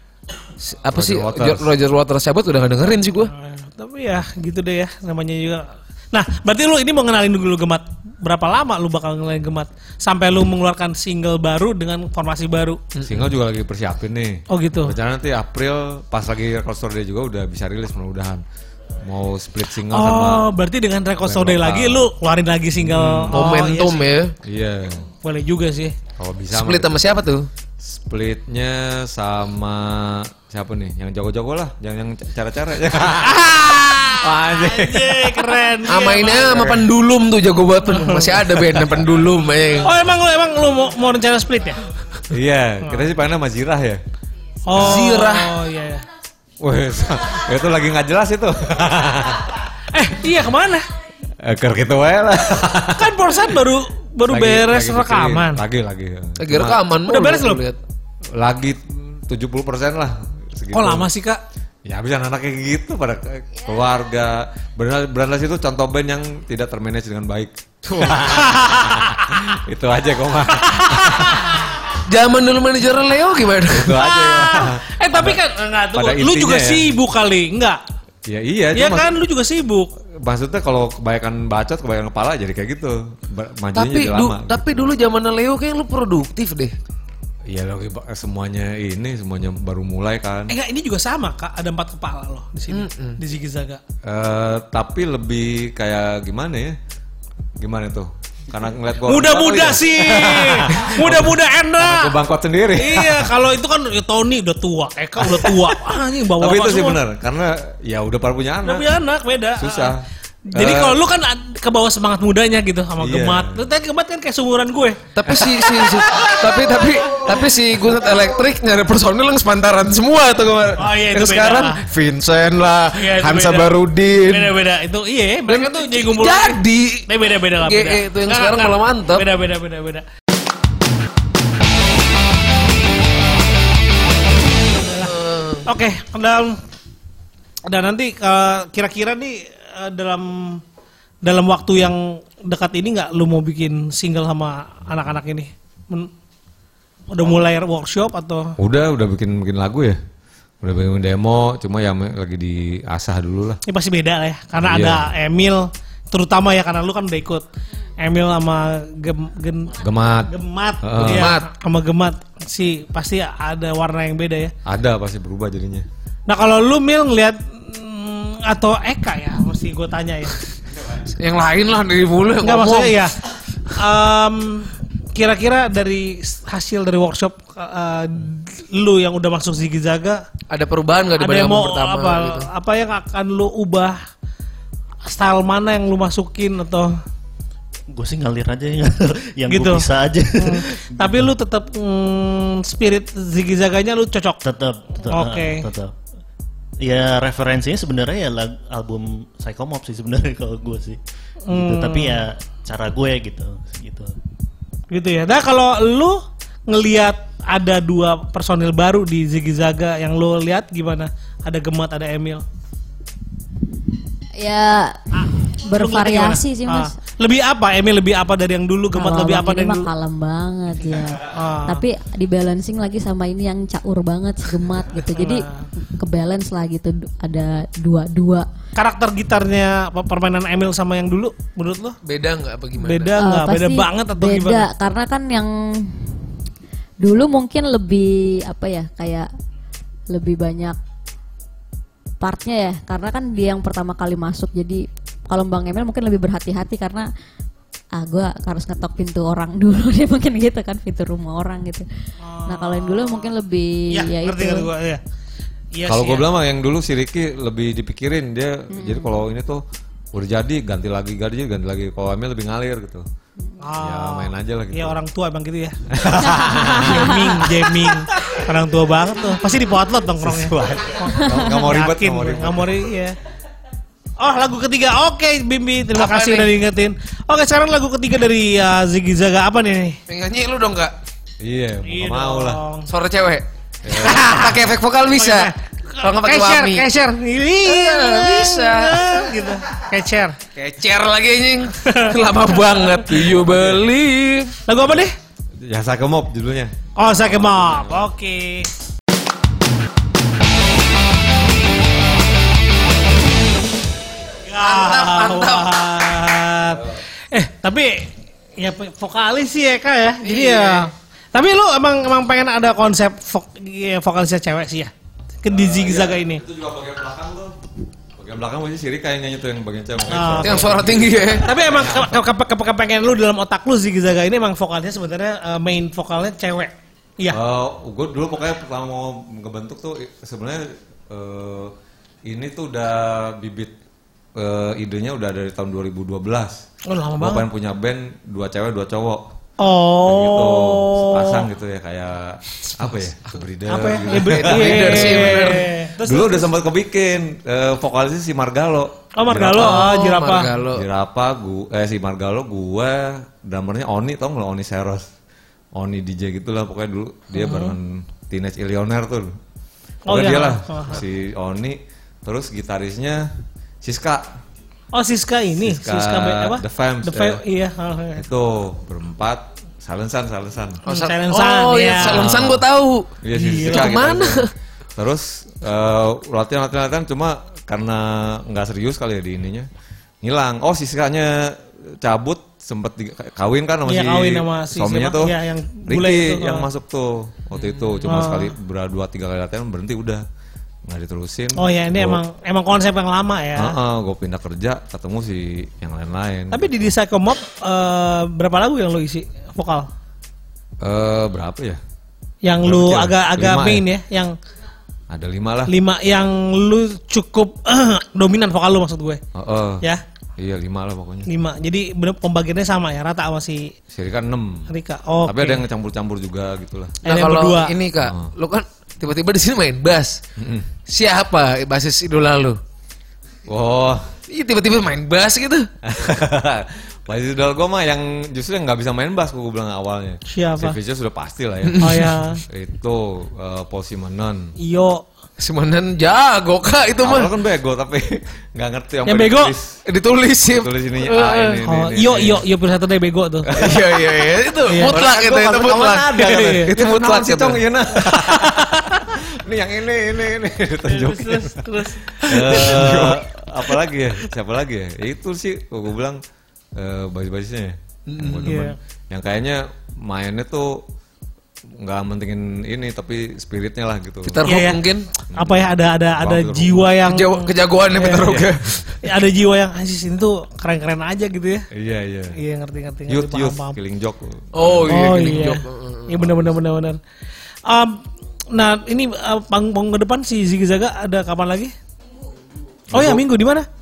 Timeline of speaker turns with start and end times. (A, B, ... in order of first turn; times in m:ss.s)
0:00.6-0:03.3 A
0:00.9-0:01.7 B
0:03.3-0:12.8 C
0:13.0-0:13.2 A
0:13.0-0:18.4 B
0:14.5-0:15.0 C
0:19.0-0:20.5 B
0:19.9-0:24.1 C
0:21.2-0:22.1 B
0:22.8-0:23.4 B
0:23.3-0:24.3 A
0:24.4-0:25.1 B
0:25.2-0:26.0 C
0:26.2-0:27.0 B
0:26.5-0:27.5 A
0:27.8-0:35.5 B
0:33.2-0:36.6 C
0:35.9-0:39.9 A
0:36.3-0:36.9 B
0:37.9-0:38.4 C
0:39.8-0:41.8 C
0:42.3-0:44.0 B
0:44.7-0:46.0 C
0:44.7-0:45.1 B
0:44.8-0:45.5 A
0:46.6-0:49.6 B
0:49.9-0:50.8 C
0:51.4-0:53.1 B
0:52.9-0:55.6 C
0:54.3-0:56.8 B
0:56.4-0:57.8 A
0:57.0-0:57.6 C
0:58.4-1:01.1 B
1:00.7-1:01.4 C
1:01.8-1:11.6 B
1:08.3-1:09.4 C
1:10.6-1:11.7 C
1:12.1-1:14.0 A
1:13.7-1:15.4 B
1:14.0-1:17.8 C
1:15.9-1:17.0 B
1:18.2-1:19.1 B
1:18.7-1:19.9 C
1:20.2-1:24.9 B
1:23.7-1:26.8 A
1:27.5-1:30.6 B
1:30.5-1:33.8 C
1:32.7-1:33.2 A
1:34.0-1:36.8 B
1:37.6-1:43.3 B
1:39.0-1:42.2 C
1:42.8-1:47.0 C
1:46.4-1:48.9 B
1:48.6-1:49.9 C
1:49.6-1:50.0 B
1:50.5-1:55.1 C
1:50.5-1:51.0 B
1:53.0-1:53.6 B
1:55.2-2:04.5 A
1:55.6-1:56.3 C
2:00.8-2:01.8 C
2:02.9-2:03.7 C
2:04.2-2:10.0 C
2:05.5-2:07.0 A
2:07.6-2:09.2 A
2:14.7-2:16.6 C
2:15.0-2:15.6 A
2:17.7-2:20.6 C
2:21.2-2:26.1 C
2:27.1-2:28.5 C
2:28.6-2:30.0 B
2:30.6-2:33.6 B
2:33.7-2:37.4 C
2:34.6-2:35.1 B
2:38.0-2:44.5 C
2:39.8-2:41.3 B
2:41.1-2:41.4 A
2:44.6-2:45.8 B
2:46.3-2:50.4 C
2:51.0-2:53.0 A
2:52.4-2:53.1 C
2:53.7-3:00.2 C
3:00.5-3:02.5 A
3:01.2-3:04.0 C
3:05.0-3:06.9 C
3:07.9-3:11.2 D
3:09.5-3:14.4 C
3:14.4-3:15.9 D
3:15.1-3:15.7 C
3:16.8-3:21.0 D
3:21.5-3:22.2 C
3:21.5-3:24.1 D
3:24.9-3:32.4 C
3:34.4-3:36.9 E
3:35.2-3:39.9 C
3:38.9-3:45.4 E
3:41.2-3:41.8 C
3:45.0-3:45.7 C
3:46.0-3:48.5 E
3:48.8-3:52.0 C
3:52.0-3:53.1 A
3:52.8-3:54.6 C
3:53.2-3:56.2 E
3:57.0-3:59.3 E
4:00.1-4:00.8 E
4:02.2-4:07.1 E
4:08.0-4:11.8 E
4:12.2-4:13.3 C
4:12.5-4:14.7 E
4:13.9-4:15.0 C
4:15.7-4:16.3 C
4:15.8-4:19.6 B
4:18.7-4:19.2 E
4:20.1-4:23.0 B
4:23.6-4:25.7 C
4:23.8-4:25.0 B
4:25.9-4:28.3 B
4:26.5-4:33.2 C
4:30.2-4:32.8 B
4:34.2-4:40.0 C
4:36.0-4:36.5 A
4:40.1-4:40.9 A
4:41.4-4:42.6 B
4:41.8-4:42.9 C
4:42.9-4:45.5 A
4:43.8-4:44.3 B
4:44.0-4:44.6 C
4:45.1-4:50.4 C
4:46.0-4:46.9 A
4:47.6-4:49.3 A
4:50.5-4:54.6 A
4:51.8-4:52.1 C
4:53.5-4:53.8 B
4:54.7-4:55.1 C
4:55.6-4:58.1 B
4:57.0-4:58.7 C
5:04.4-5:14.9 C
5:04.6-5:05.8 A
5:10.2-5:10.9 A
5:15.4-5:16.4 C
5:15.5-5:17.6 B
5:18.2-5:22.2 B
5:20.1-5:20.8 C
5:20.4-5:21.4 A
5:21.4-5:27.4 C
5:27.3-5:31.7 B
5:32.2-5:33.7 B
5:34.4-5:36.6 B
5:36.9-5:37.5 C
5:37.2-5:39.2 B
5:39.6-5:41.5 C
5:40.0-5:49.9 B
5:43.7-5:46.5 C
5:44.3-5:45.7 A
5:49.2-5:50.5 C
5:49.6-5:50.8 A
5:50.7-5:55.1 B
5:55.8-5:59.3 B
5:57.3-5:57.8 C
6:00.1-6:01.0 C
6:00.1-6:03.3 B
6:03.8-6:04.3 B
6:04.9-6:08.2 C
6:05.6-6:07.4 B
6:08.1-6:10.8 B
6:10.8-6:12.3 C
6:10.8-6:13.1 A
6:12.0-6:12.6 B
6:13.2-6:19.7 B
6:13.3-6:14.0 C
6:13.6-6:14.5 A
6:20.2-6:25.3 B
6:23.8-6:26.7 C
6:25.8-6:30.2 B
6:28.0-6:28.5 C
6:30.9-6:32.2 B
6:31.6-6:33.7 C
6:33.6-6:36.9 B
6:36.5-6:39.9 C
6:40.8-6:41.8 B
6:42.4-6:44.3 C
6:42.6-6:43.8 B
6:45.1-6:45.7 B
6:45.7-6:49.2 C
6:49.3-6:49.8 B
6:50.4-6:51.3 B
6:51.3-6:53.7 C
6:53.9-6:54.7 B
6:54.7-6:55.6 C
6:55.2-6:57.0 B
6:57.0-6:57.7 C
6:57.0-7:00.2 A
6:58.0-6:58.3 B
7:00.4-7:00.7 B
7:00.9-7:02.6 A
7:03.4-7:04.1 B
7:04.3-7:05.7 A
7:05.8-7:14.5 B
7:10.3-7:10.8 C
7:11.6-7:12.1 A
7:11.8-7:12.4 C
7:14.6-7:15.0 C
7:15.4-7:17.3 A
7:17.0-7:19.8 B
7:19.0-7:19.5 C
7:19.9-7:21.6 A
7:20.4-7:22.4 B
7:21.7-7:23.5 C
7:23.5-7:24.2 B
7:23.5-7:27.6 A
7:24.7-7:25.0 C
7:24.9-7:31.7 B
7:26.2-7:26.7 C
7:30.9-7:33.1 C
7:32.2-7:36.2 B
7:32.5-7:33.2 A
7:36.8-7:40.8 B
7:38.1-7:38.5 A
7:38.4-7:38.8 C
7:41.8-7:44.4 B
7:44.3-7:45.1 A
7:44.4-7:48.4 C
7:45.3-7:47.0 B
7:47.0-7:48.9 A
7:48.2-7:48.8 B
7:49.0-7:51.7 C
7:51.7-7:52.4 B
7:52.4-7:53.8 C
7:53.1-7:55.1 B
7:54.5-7:56.2 A
7:54.9-7:57.0 C
7:56.2-7:56.6 B
7:57.7-7:58.0 C
7:58.5-8:01.7 C
8:02.9-8:03.2 B
8:02.9-8:03.7 C